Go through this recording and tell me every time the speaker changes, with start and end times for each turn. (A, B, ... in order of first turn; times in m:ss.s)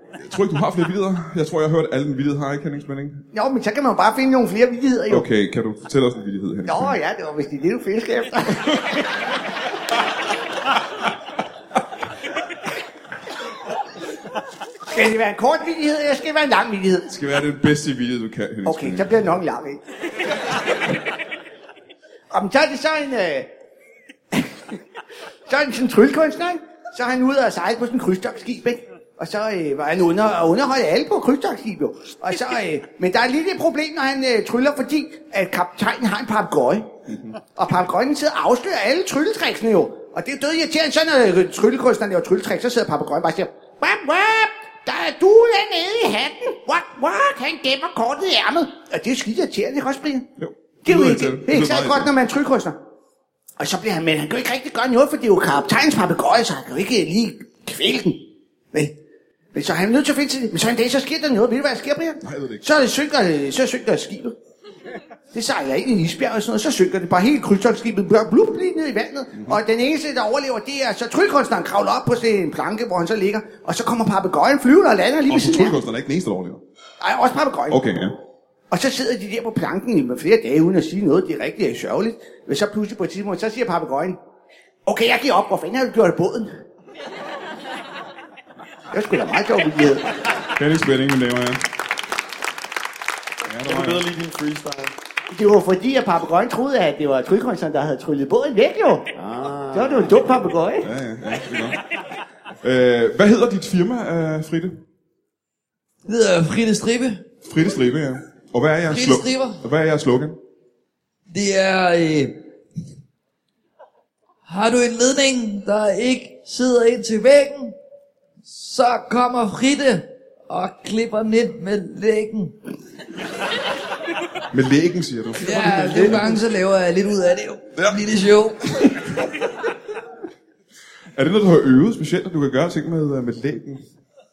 0:00.2-0:03.3 A
0:03.3-0:05.3 B
0:05.1-0:07.0 A
0:06.7-0:08.9 B
0:14.9-0:17.1 B
0:17.1-0:19.2 A
0:18.6-0:19.8 B
0:22.3-0:23.5 B
0:24.3-0:24.7 B
0:25.5-0:36.9 B
0:37.6-0:50.3 B
0:50.4-0:52.1 A
0:50.8-0:52.8 B
0:53.6-0:58.9 B
0:59.5-1:04.3 B
1:02.2-1:02.7 A
1:05.3-1:15.8 B
1:15.3-1:16.6 A
1:17.0-1:17.8 B
1:17.7-1:18.2 A
1:18.7-1:24.2 B
1:24.9-1:26.5 B
1:28.9-1:30.1 B
1:30.6-1:31.6 A
1:33.5-1:34.0 A
1:33.6-1:34.9 C
1:35.3-1:39.1 B
1:39.1-1:40.2 C
1:39.7-1:40.9 B
1:40.8-1:41.8 A
1:42.6-1:44.8 A
1:46.1-1:47.2 D
1:47.4-1:50.4 A
1:48.9-1:49.6 D
1:51.3-1:52.4 D
1:54.5-1:57.8 D
1:58.4-2:02.7 D
2:04.5-2:06.2 A
2:05.4-2:09.1 D
2:05.5-2:06.4 C
2:11.2-2:13.8 A